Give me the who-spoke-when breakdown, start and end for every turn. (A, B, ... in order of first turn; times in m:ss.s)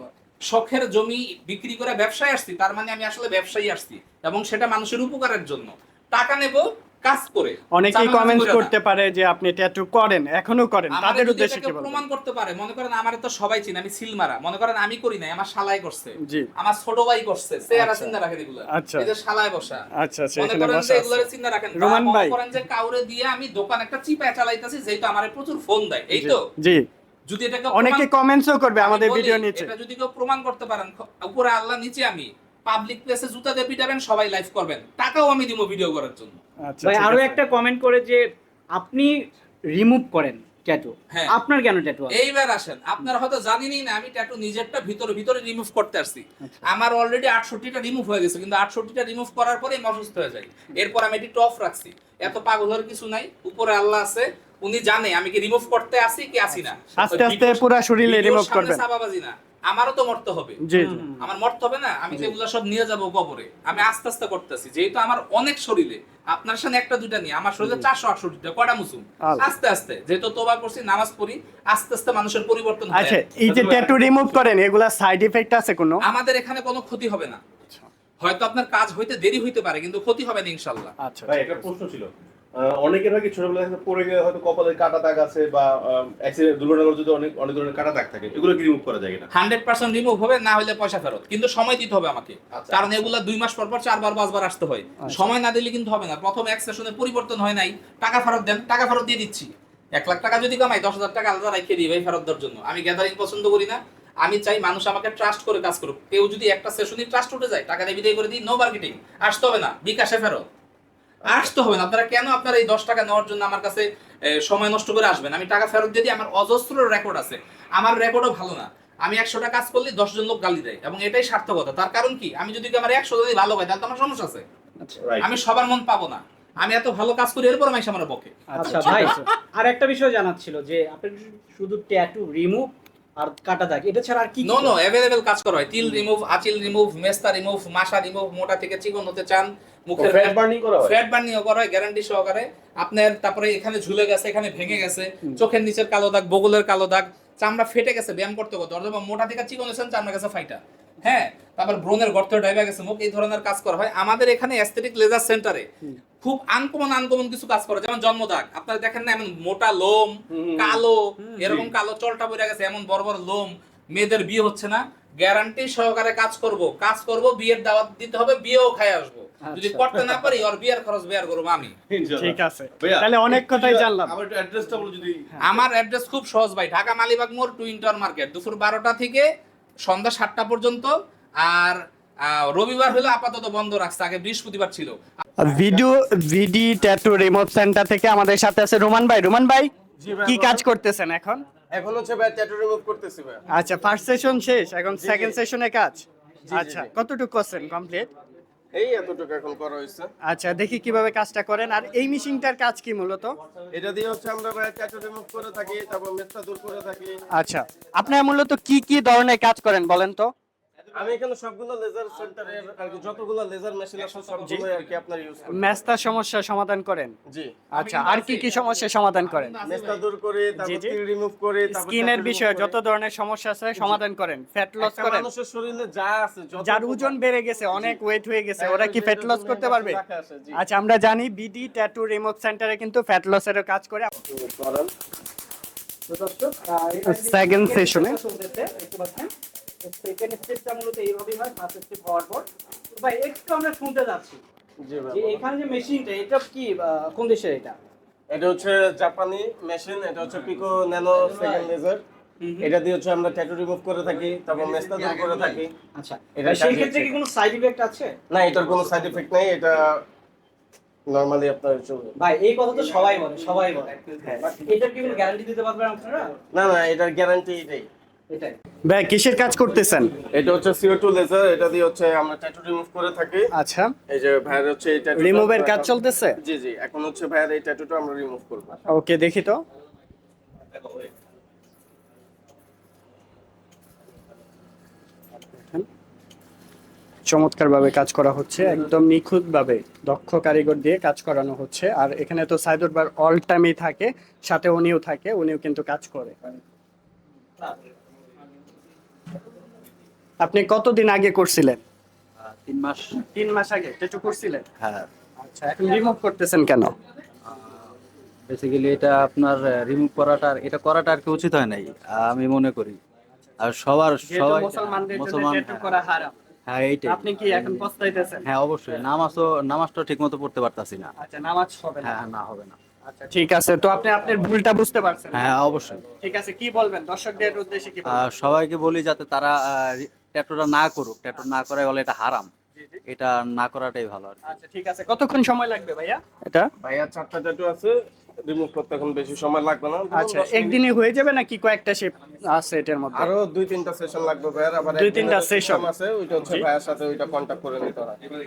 0:00.5-0:08.7 A
0:07.7-0:12.0 B
0:10.9-0:19.8 A
0:16.2-0:16.5 B
0:17.7-0:18.2 B
0:18.7-0:19.1 B
0:20.0-0:21.2 B
0:20.4-0:26.4 A
0:21.8-0:22.4 B
0:26.1-0:26.8 B
0:27.3-0:28.0 A
0:27.7-0:29.7 B
0:28.8-0:36.4 A
0:36.7-0:37.4 B
0:36.8-0:38.2 C
0:38.8-0:39.2 C
0:39.7-0:42.2 C
0:42.1-1:00.6 A
0:57.0-0:58.8 B
1:00.6-1:01.0 B
1:00.8-1:01.2 C
1:01.2-1:13.2 A
1:09.2-1:09.5 B
1:12.9-1:16.0 B
1:13.4-1:14.0 D
1:16.0-1:17.4 A
1:18.2-1:20.9 A
1:21.0-1:21.5 B
1:21.3-1:29.3 D
1:29.3-1:50.4 A
1:32.5-1:32.9 D
1:35.0-1:35.3 B
1:51.3-2:04.4 A
2:05.2-2:09.2 A
2:08.5-2:09.2 B
2:08.6-2:14.7 C
2:14.4-2:35.6 A
2:20.0-2:21.0 E
2:36.2-2:51.7 A
2:40.3-2:40.8 E
2:41.3-2:41.6 C
2:49.8-2:50.2 B
2:51.9-2:55.3 D
2:52.2-2:54.2 B
2:55.4-2:59.3 A
2:59.8-3:05.2 A
3:05.4-3:09.7 B
3:10.0-3:10.6 E
3:10.2-3:11.4 B
3:11.7-3:13.4 E
3:13.5-3:18.1 B
3:15.0-3:15.4 E
3:16.5-3:16.9 E
3:18.7-3:20.1 E
3:20.2-3:23.4 B
3:23.7-3:27.2 E
3:27.3-3:30.3 B
3:30.9-3:35.8 E
3:35.5-3:37.1 B
3:37.3-3:37.6 E
3:37.7-3:39.5 B
3:37.7-3:40.0 A
3:39.6-3:42.7 E
3:40.6-3:41.0 B
3:41.7-3:45.3 B
3:44.8-3:47.1 E
3:46.6-3:50.0 B
3:48.6-3:50.6 E
3:50.5-3:54.1 B
3:54.3-3:54.9 E
3:56.1-3:59.3 C
3:57.0-3:58.2 B
3:59.8-4:04.4 C
4:04.8-4:05.4 E
4:05.1-4:07.8 C
4:08.3-4:12.0 E
4:11.2-4:11.7 C
4:12.4-4:12.7 C
4:12.6-4:15.7 E
4:14.5-4:15.6 F
4:15.9-4:18.1 C
4:16.4-4:17.1 E
4:18.3-4:20.0 E
4:21.1-4:22.1 E
4:22.2-4:24.0 C
4:24.6-4:26.3 C
4:26.5-4:27.9 E
4:28.3-4:28.6 C
4:28.9-4:30.2 B
4:30.3-4:33.5 E
4:33.5-4:33.9 B
4:34.1-4:38.7 E
4:35.1-4:36.4 B
4:38.9-4:39.6 B
4:45.6-4:45.8 B
4:47.3-4:56.4 B
5:00.4-5:01.8 B
5:02.4-5:03.1 F
5:03.3-5:04.6 B
5:04.8-5:05.1 F
5:05.4-5:06.9 B
5:07.5-5:07.9 F
5:08.5-5:13.0 F
5:13.6-5:16.0 F
5:14.2-5:16.3 B
5:16.7-5:17.9 F
5:17.0-5:18.4 B
5:18.4-5:21.1 F
5:21.2-5:22.2 B
5:22.0-5:22.8 F
5:23.1-5:25.5 B
5:25.3-5:26.0 F
5:26.1-5:28.2 B
5:28.0-5:32.5 F
5:32.8-5:33.0 B
5:33.0-5:34.4 F
5:34.4-5:36.7 B
5:36.8-5:40.8 E
5:40.1-5:43.3 B
5:43.1-5:48.2 E
5:44.9-5:45.9 B